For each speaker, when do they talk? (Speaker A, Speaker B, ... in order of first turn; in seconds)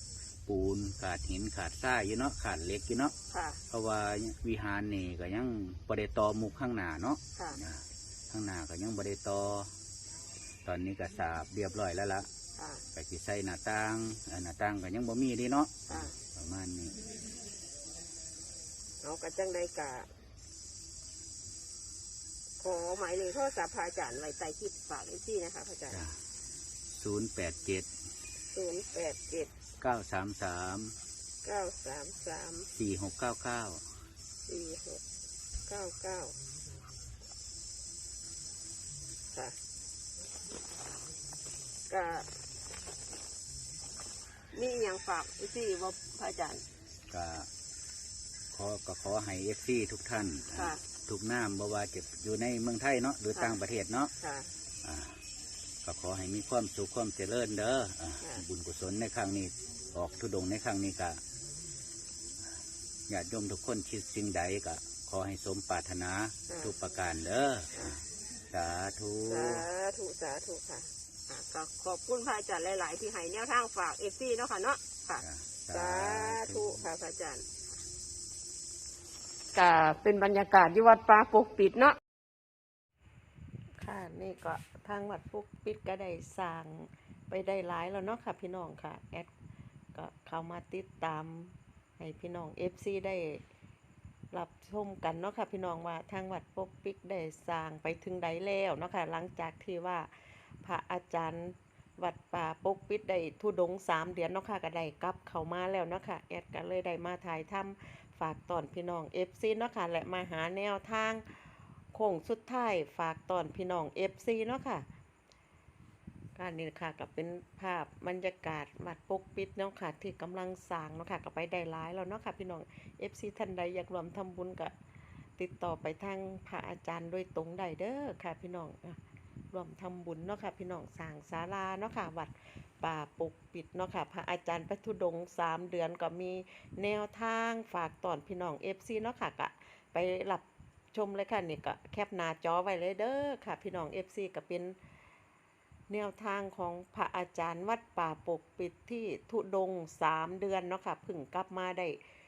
Speaker A: 0.5-3.1, 3.7-9.7, 10.7-12.3, 12.9-17.0, 27.0-27.9, 29.8-30.9, 32.8-33.8, 47.1-47.5, 48.5-54.1, 54.8-55.1, 55.8-61.2, 63.1-68.0, 68.5-69.7, 75.2-76.7
Speaker B: 3.3-3.6, 12.6-12.8, 15.9-16.1, 19.0-20.1, 22.6-26.0, 28.5-29.5, 31.4-32.7, 34.5-35.0, 35.7-36.4, 41.9-42.3, 44.5-46.6, 54.2-54.5, 69.3-77.5, 79.5-82.0
Speaker C: 83.8-89.3, 89.9-93.4, 94.3-100.1, 100.6-114.9, 116.4-124.7, 125.4-129.0, 129.5-144.8, 145.9-152.0